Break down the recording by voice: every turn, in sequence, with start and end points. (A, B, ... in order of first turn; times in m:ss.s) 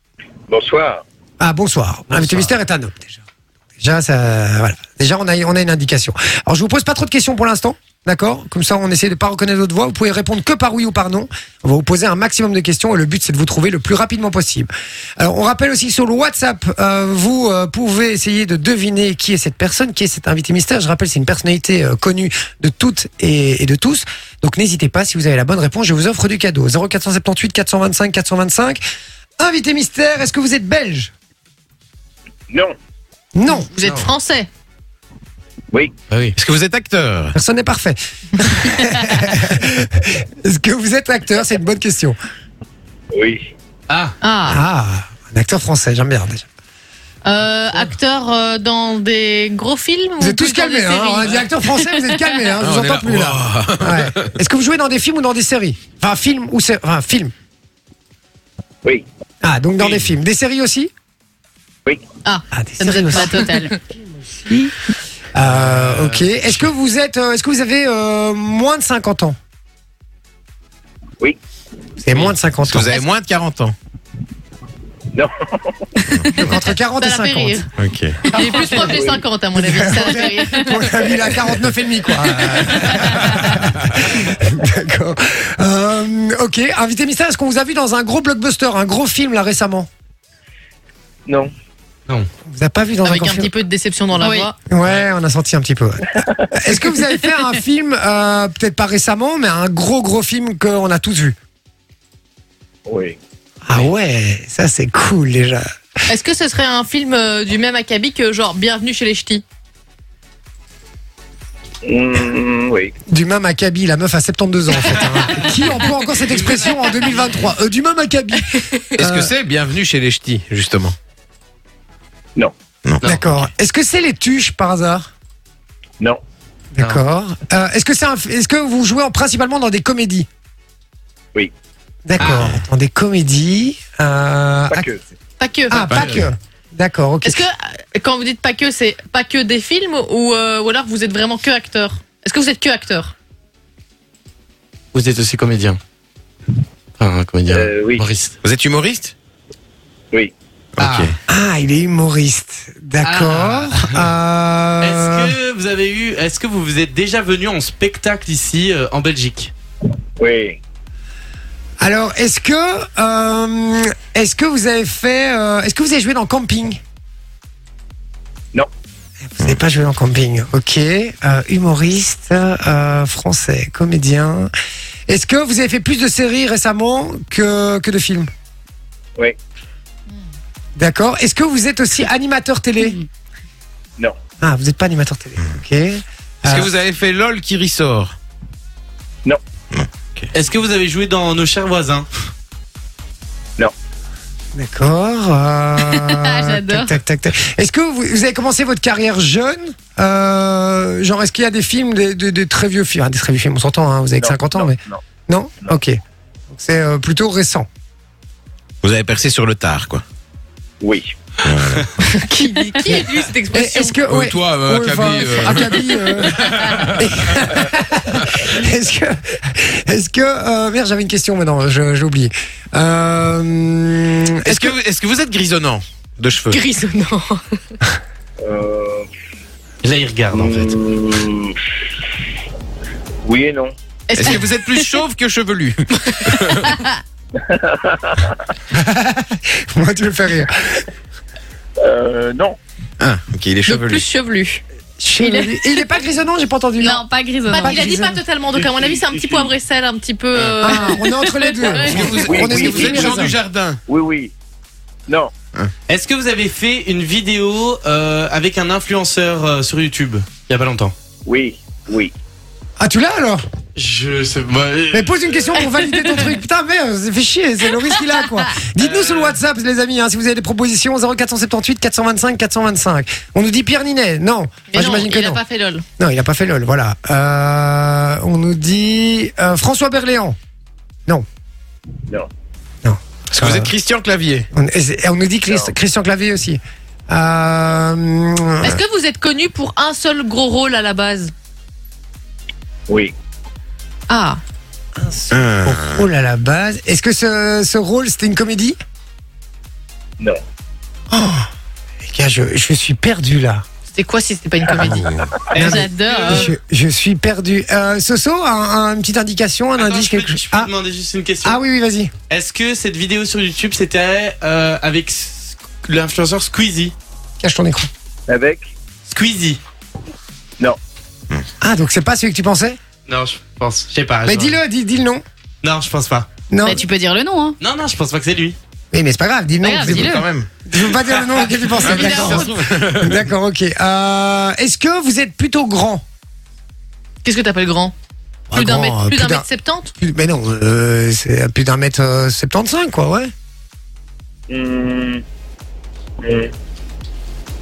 0:00.5-0:01.0 A
0:01.4-0:03.2 B
0:03.8-0:28.8 B
0:29.4-0:31.1 B
0:32.5-0:32.7 A
0:33.3-0:33.7 B
0:33.5-0:34.5 C
0:33.8-0:34.1 D
0:36.1-0:36.3 D
0:36.4-0:37.3 E
0:37.3-0:42.2 B
0:43.1-0:43.5 A
0:43.9-0:44.1 D
0:44.2-0:44.6 C
0:44.4-0:46.4 B
0:47.2-0:52.4 C
0:50.2-0:57.3 B
0:52.6-0:54.3 E
0:59.4-1:00.9 B
0:59.8-1:00.1 D
1:02.2-1:03.8 C
1:02.5-1:04.8 B
1:05.3-1:09.4 B
1:05.4-1:06.5 D
1:12.0-1:12.9 B
1:12.7-1:13.7 E
1:15.1-1:15.8 A
1:16.3-1:17.7 C
1:16.4-1:17.6 B
1:17.8-1:18.2 E
1:18.2-1:20.9 C
1:18.4-1:19.2 A
1:19.5-1:29.9 B
1:20.9-1:21.3 A
1:22.5-1:23.2 C
1:32.5-1:33.5 B
1:33.0-1:34.6 C
1:34.2-1:34.5 F
1:34.7-1:41.4 B
1:42.9-1:43.2 A
1:43.6-1:45.6 B
1:46.1-1:49.4 C
1:51.8-1:52.9 A
1:53.1-1:59.3 B
1:55.2-1:57.4 D
1:59.0-2:01.0 E
2:02.8-2:03.5 E
2:03.0-2:05.1 B
2:06.7-2:10.3 B
2:12.0-2:14.9 B
2:12.2-2:12.6 E
2:14.7-2:15.0 A
2:15.4-2:15.9 C
2:15.7-2:17.4 B
2:15.8-2:16.3 E
2:17.2-2:23.1 C
2:24.9-2:25.8 D
2:27.0-2:28.3 D
2:27.5-2:28.0 A
2:28.4-2:29.1 E
2:30.8-2:31.1 E
2:30.8-2:31.1 D
2:31.3-2:35.3 B
2:33.0-2:34.1 D
2:34.8-2:39.5 D
2:40.2-2:40.6 A
2:41.8-2:46.8 B
2:49.2-2:54.5 B
2:55.1-2:58.3 B
3:00.8-3:03.0 B
3:04.4-3:06.7 B
3:06.4-3:08.1 E
3:09.7-3:10.3 E
3:10.3-3:12.1 D
3:14.5-3:26.0 B
3:15.8-3:17.0 F
3:24.2-3:25.0 A
3:26.5-3:27.7 B
3:28.8-3:30.0 E
3:30.8-3:31.1 A
3:31.4-3:31.9 E
3:32.0-3:34.0 C
3:33.5-3:44.7 B
3:34.0-3:37.5 E
3:44.4-3:46.6 E
3:46.5-3:47.6 C
3:48.4-3:49.1 A
3:49.8-3:50.8 D
3:50.3-3:51.8 A
3:53.2-3:53.7 A
3:54.1-3:54.8 C
3:54.1-3:56.7 E
3:57.4-3:58.3 A
3:58.7-4:00.9 B
4:01.8-4:02.6 A
4:03.0-4:04.0 E
4:03.6-4:04.6 C
4:05.0-4:08.2 B
4:06.8-4:07.9 F
4:07.4-4:13.1 C
4:08.5-4:09.5 D
4:10.6-4:13.4 B
4:11.8-4:13.8 E
4:12.2-4:13.1 A
4:13.9-4:14.3 A
4:15.1-4:15.3 A
4:15.9-4:20.9 D
4:21.2-4:22.1 A
4:22.8-4:23.4 B
4:23.7-4:25.3 D
4:24.9-4:35.4 B
4:28.8-4:29.4 D
4:34.7-4:35.8 C
4:36.0-4:40.4 B
4:42.8-4:43.7 B
4:43.3-4:44.5 E
4:44.5-4:48.8 B
4:45.5-4:45.7 A
4:48.6-4:51.3 C
4:52.9-4:53.1 A
4:54.1-4:54.4 C
4:55.0-4:58.8 B
4:55.3-4:56.0 E
5:01.1-5:01.5 B
5:02.0-5:03.6 B
5:03.9-5:06.5 C
5:04.8-5:10.7 B
5:05.2-5:05.6 A
5:05.5-5:06.5 D
5:09.8-5:11.6 D
5:11.4-5:12.1 B
5:12.3-5:16.9 D
5:17.4-5:17.9 B
5:18.3-5:18.7 A
5:19.1-5:19.6 D
5:21.6-5:22.8 B
5:23.1-5:24.6 D
5:24.2-5:25.2 B
5:25.6-5:26.3 D
5:26.5-5:26.8 B
5:26.6-5:27.6 F
5:27.6-5:28.6 D
5:28.9-5:36.0 B
5:29.6-5:30.2 F
5:29.9-5:30.5 E
5:30.9-5:31.6 D
5:31.8-5:33.3 E
5:31.8-5:32.6 C
5:37.2-5:37.9 C
5:38.5-5:39.4 B
5:38.5-5:39.9 C
5:40.0-5:43.3 B
5:44.5-5:45.2 A
5:46.2-5:46.5 A